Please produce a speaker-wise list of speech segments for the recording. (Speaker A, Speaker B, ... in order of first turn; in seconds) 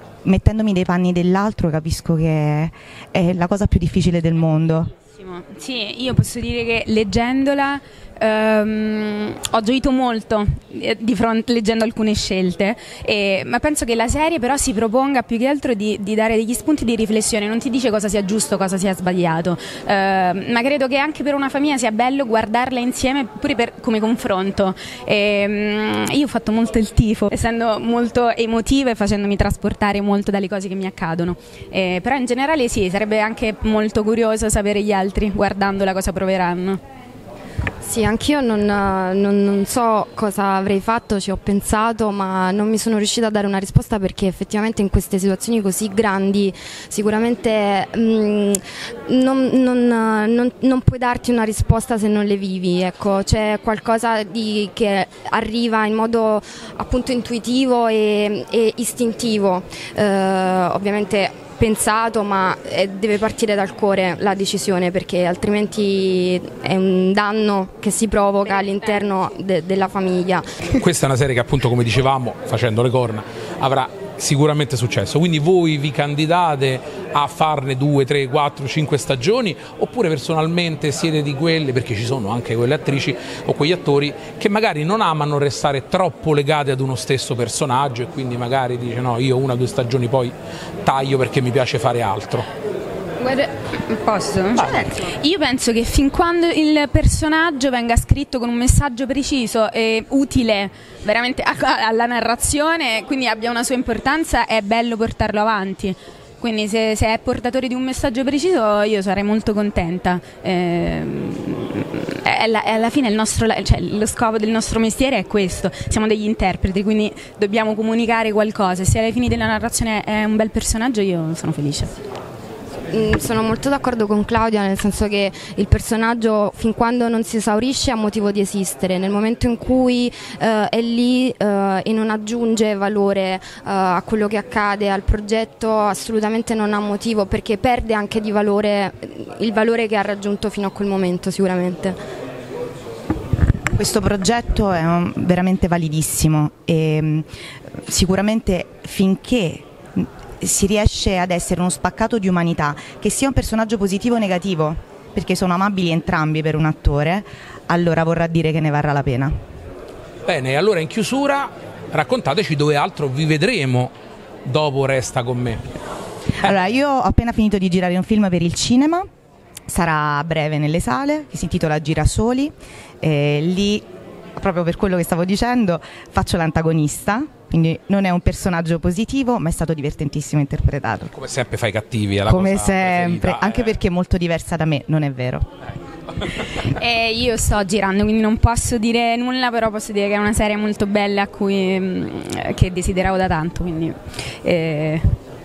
Speaker A: 0.2-4.9, 143.7-147.3, 147.9-159.3, 166.4-169.0, 169.7-181.1, 182.3-185.5
Speaker B: 5.0-36.8, 93.2-121.9, 186.5-195.2
Speaker C: 37.8-70.5, 122.9-142.0
Speaker D: 70.8-92.5, 160.3-165.7, 181.1-183.7